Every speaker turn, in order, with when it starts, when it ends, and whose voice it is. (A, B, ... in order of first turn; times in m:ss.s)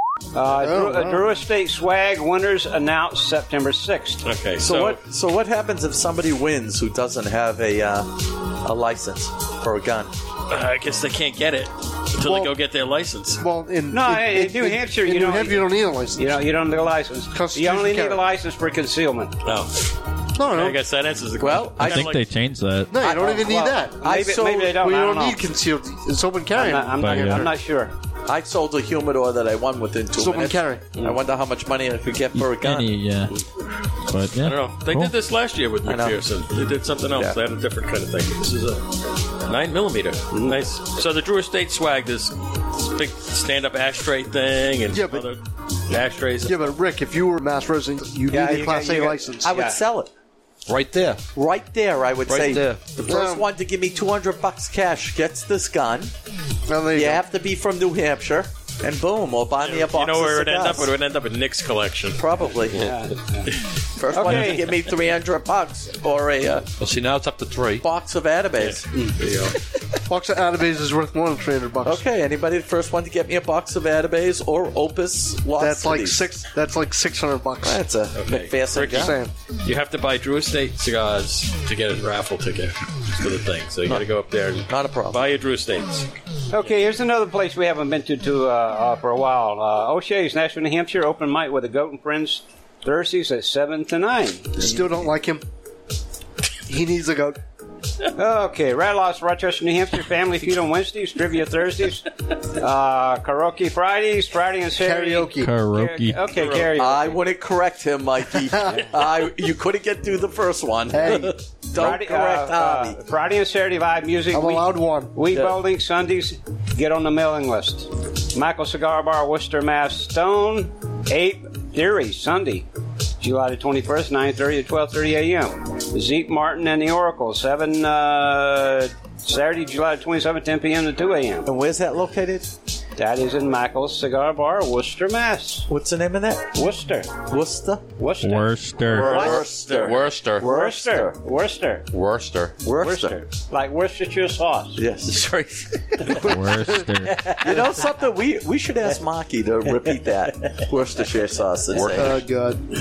0:00.4-0:04.2 A
0:00.5-0:01.2 B
0:04.2-0:05.0 C
0:04.6-0:10.1 D
0:10.5-0:13.4 C
0:12.2-0:12.5 B
0:13.4-0:16.4 B
0:13.9-0:19.3 A
0:17.3-0:18.2 B
0:19.4-0:22.2 C
0:20.4-0:20.8 B
0:21.4-0:22.1 D
0:21.8-0:23.0 E
0:22.9-0:24.1 B
0:23.0-0:23.5 D
0:23.1-0:25.5 A
0:24.0-0:24.8 D
0:24.7-0:27.5 B
0:26.5-0:27.9 A
0:27.0-0:27.5 E
0:28.3-0:32.9 D
0:30.2-0:30.9 B
0:32.4-0:33.4 E
0:34.0-0:35.1 E
0:34.4-0:38.9 C
0:35.9-0:36.2 D
0:39.4-0:46.8 C
0:40.3-0:40.6 A
0:44.9-0:45.3 B
0:46.4-0:49.6 B
0:48.3-0:49.8 A
0:49.4-0:50.1 D
0:50.7-0:51.2 F
0:51.4-0:56.1 D
0:52.3-0:52.8 F
0:53.1-0:53.5 B
0:56.7-0:57.2 B
0:56.9-1:00.9 D
0:59.6-1:02.2 C
1:02.2-1:02.8 D
1:02.8-1:03.5 A
1:04.0-1:06.7 D
1:04.1-1:04.7 A
1:06.8-1:07.8 F
1:07.8-1:08.9 D
1:08.6-1:09.6 C
1:10.0-1:12.0 B
1:11.8-1:16.2 D
1:15.6-1:17.8 B
1:17.6-1:19.2 D
1:18.2-1:26.8 C
1:18.9-1:19.3 B
1:24.7-1:25.2 D
1:26.5-1:34.5 A
1:34.5-1:35.4 B
1:36.7-1:37.4 B
1:38.2-1:47.2 A
1:44.8-1:45.5 B
1:45.4-1:46.2 E
1:46.3-1:46.7 C
1:46.8-1:53.0 D
1:48.5-1:48.9 B
1:50.9-1:51.4 B
1:51.7-2:02.6 A
1:54.3-1:55.1 B
1:55.3-1:55.6 D
2:03.2-2:11.5 A
2:11.4-2:12.5 D
2:13.0-2:15.7 A
2:15.7-2:16.6 D
2:16.5-2:17.1 A
2:17.3-2:17.8 D
2:18.0-2:21.9 A
2:18.2-2:19.3 E
2:18.9-2:21.1 D
2:19.8-2:20.5 F
2:21.9-2:22.5 F
2:22.6-2:23.2 D
2:22.7-2:24.8 A
2:24.8-2:25.2 D
2:25.1-2:25.9 F
2:26.0-2:27.9 A
2:26.2-2:27.2 E
2:27.4-2:32.2 D
2:31.9-2:32.6 B